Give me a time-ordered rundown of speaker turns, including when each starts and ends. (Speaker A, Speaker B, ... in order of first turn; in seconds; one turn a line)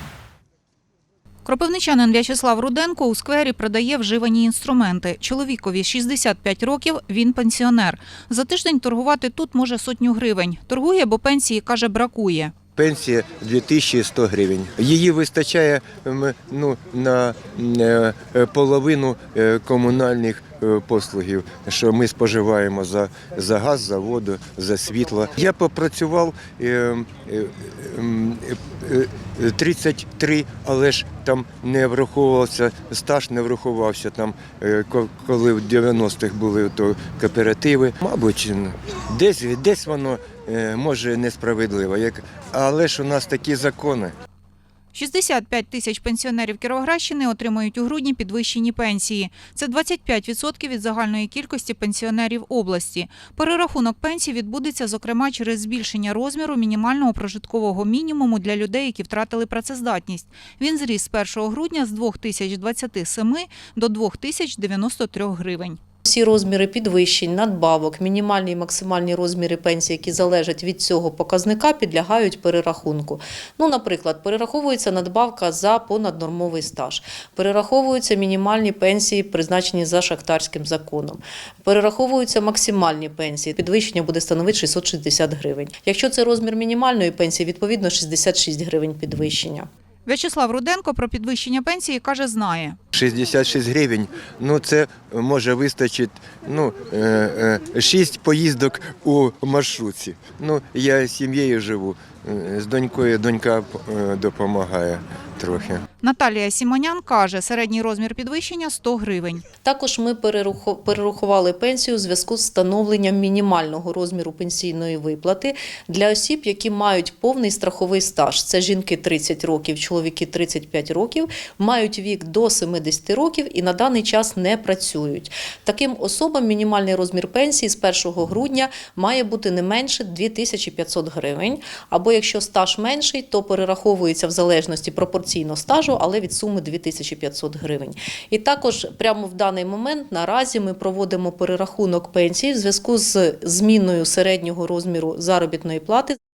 Speaker A: 1.4-12.5
Speaker B: 12.8-44.1
Speaker A: 44.9-65.8
Speaker C: 66.0-89.7
Speaker A: 90.0-92.8
Speaker B: 92.9-105.8
Speaker A: 106.0-109.4
Speaker C: 109.6-146.2